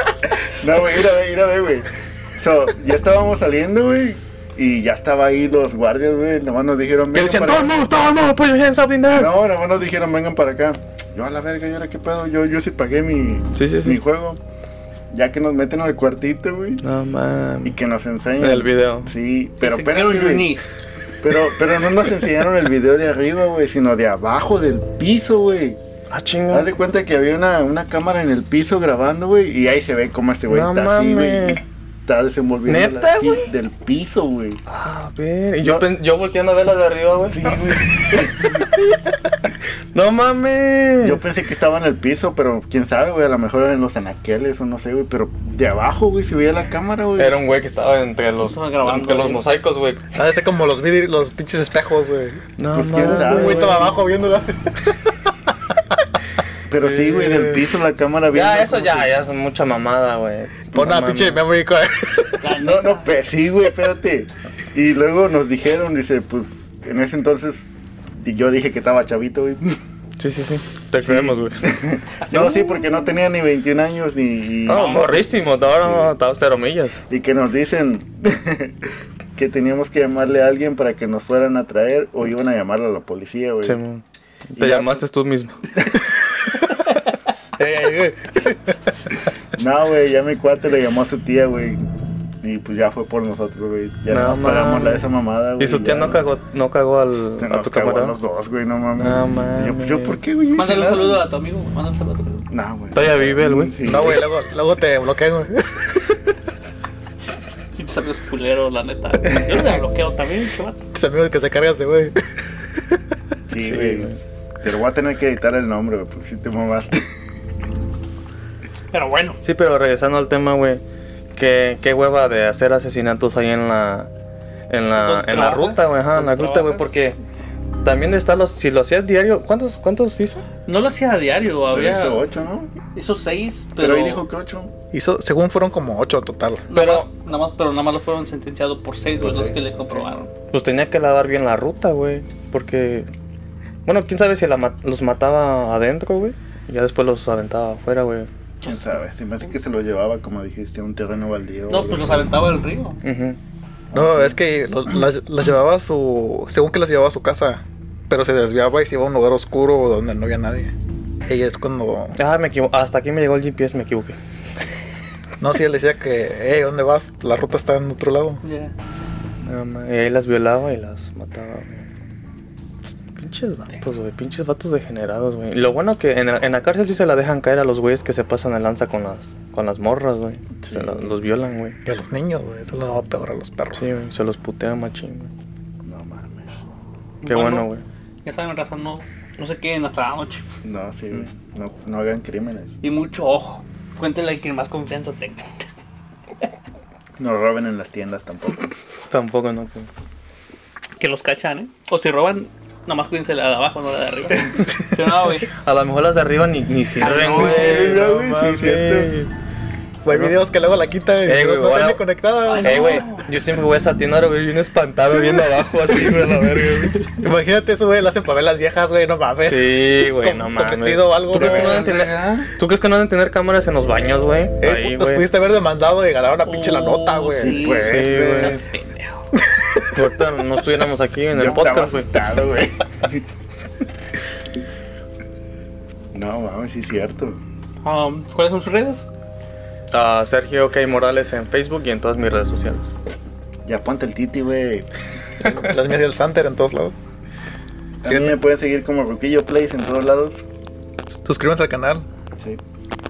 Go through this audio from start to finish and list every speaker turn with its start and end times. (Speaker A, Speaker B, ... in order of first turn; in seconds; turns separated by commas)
Speaker A: 0.5-7.8, Speaker B: 7.1-9.3, Speaker A: 9.1-14.4, Speaker B: 13.5-14.0, Speaker A: 15.1-16.8, Speaker B: 16.8-17.8, Speaker A: 17.6-20.6, Speaker B: 18.4-19.1, Speaker C: 19.6-20.8, Speaker A: 21.2-25.8, Speaker B: 26.1-26.7, Speaker A: 26.5-34.6, Speaker B: 30.5-31.6, Speaker B: 32.7-33.5, Speaker B: 34.7-38.0, Speaker A: 37.2-38.8, Speaker B: 39.9-41.2, Speaker A: 41.0-47.4, Speaker B: 47.2-50.1, Speaker C: 48.4-49.5, Speaker D: 50.1-55.1, Speaker B: 52.6-53.8, Speaker A: 52.7-53.9, Speaker A: 56.7-59.1, Speaker B: 56.8-57.5, Speaker B: 58.3-61.4, Speaker D: 60.7-62.5, Speaker C: 62.4-63.1, Speaker A: 62.6-69.8, Speaker B: 70.2-71.6, Speaker A: 71.0-76.1, Speaker C: 72.2-72.8, Speaker B: 74.7-77.0, Speaker C: 74.7-75.2, Speaker A: 77.1-78.8, Speaker A: 79.3-83.8, Speaker B: 83.6-84.0, Speaker B: 84.5-85.6, Speaker A: 84.6-85.0, Speaker D: 87.6-88.8, Speaker A: 89.5-91.8, Speaker A: 92.4-96.2, Speaker B: 94.1-95.1, Speaker B: 95.6-98.2, Speaker A: 97.4-101.2, Speaker B: 99.0-100.2, Speaker C: 100.5-102.5, Speaker A: 102.5-104.2, Speaker B: 102.9-104.1, Speaker D: 103.8-106.2, Speaker C: 107.7-110.9, Speaker D: 110.9-112.2, Speaker D: 112.7-113.0, Speaker A: 113.5-117.0, Speaker B: 113.5-114.2, Speaker C: 118.9-119.4, Speaker B: 119.4-120.8, Speaker B: 121.3-124.1, Speaker B: 124.7-127.2, Speaker C: 124.9-126.9, Speaker B: 127.8-130.4, Speaker C: 130.7-132.2, Speaker A: 131.7-132.8, Speaker C: 132.9-134.2, Speaker A: 133.8-134.7, Speaker D: 134.9-136.7, Speaker C: 136.7-140.3, Speaker B: 136.7-137.1, Speaker A: 139.2-140.1, Speaker B: 140.5-143.1, Speaker B: 143.8-148.3, Speaker A: 148.6-152.3, Speaker C: 148.6-148.9, Speaker C: 151.7-153.0, Speaker B: 153.0-153.4, Speaker A: 153.9-154.3, Speaker D: 153.9-160.7, Speaker D: 161.2-162.2, Speaker B: 162.2-164.2, Speaker D: 165.4-168.4, Speaker C: 168.4-168.7, Speaker B: 169.4-171.8, Speaker B: 173.1-181.8, Speaker A: 180.6-181.1, Speaker D: 181.8-183.9, Speaker B: 183.7-185.3, Speaker A: 185.8-186.6, Speaker C: 187.2-187.7, Speaker B: 187.2-187.8, Speaker C: 188.2-190.4, Speaker A: 190.6-192.7, Speaker C: 192.8-195.5, Speaker A: 197.2-198.7, Speaker B: 199.1-199.9, Speaker C: 201.0-205.5, Speaker B: 205.6-209.3, Speaker C: 207.0-208.0, Speaker A: 207.0-209.1, Speaker D: 210.0-212.9, Speaker B: 210.1-210.4, Speaker B: 211.2-212.0, Speaker C: 212.4-213.3, Speaker B: 212.6-217.1, Speaker D: 217.2-221.9, Speaker B: 219.4-225.2, Speaker A: 221.3-222.5, Speaker D: 224.6-227.6, Speaker C: 226.4-229.3, Speaker A: 227.3-228.6, Speaker B: 227.8-228.6, Speaker B: 229.9-232.1, Speaker A: 231.3-233.2, Speaker A: 236.1-237.4, Speaker C: 237.8-239.1, Speaker B: 239.9-242.9, Speaker A: 243.6-244.9, Speaker D: 245.4-246.9, Speaker A: 248.0-250.4, Speaker D: 248.0-248.4, Speaker D: 251.2-252.1, Speaker A: 252.3-252.6